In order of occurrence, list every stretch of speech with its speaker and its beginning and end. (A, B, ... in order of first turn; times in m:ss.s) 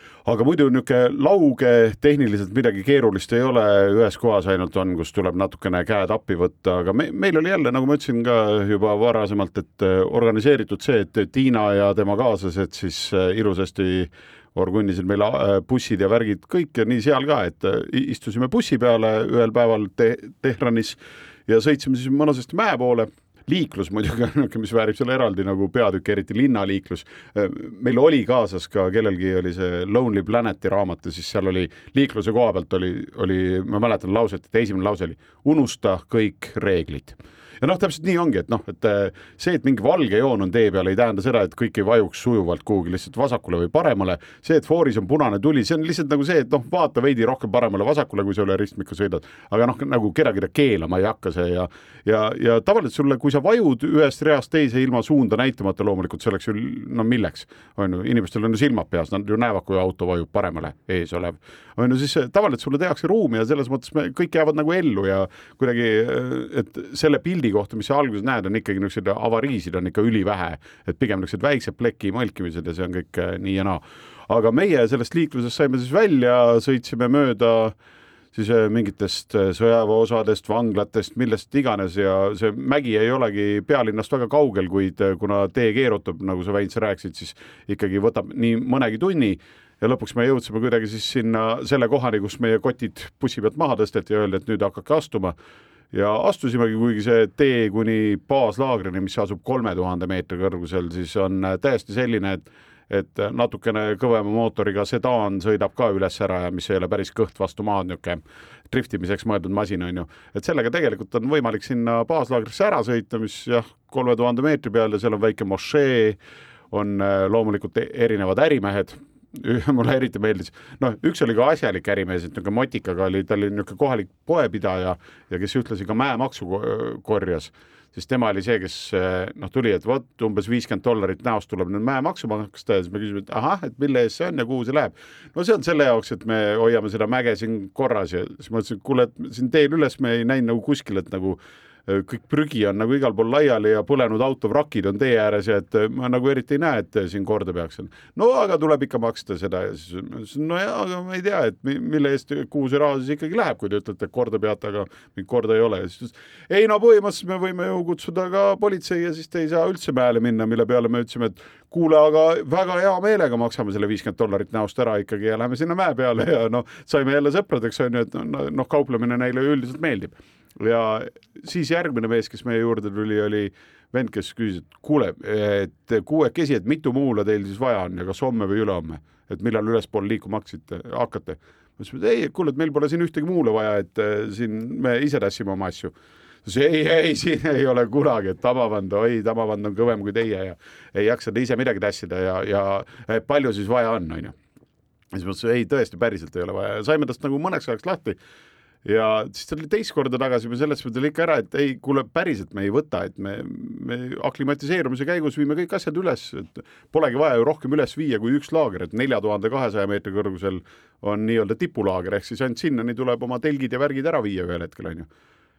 0:00.3-1:17.8 A
1:18.3-1:35.4 A
1:35.9-1:56.2 A
1:56.7-3:14.4 A
3:15.1-3:18.2 A
3:18.8-3:35.1 A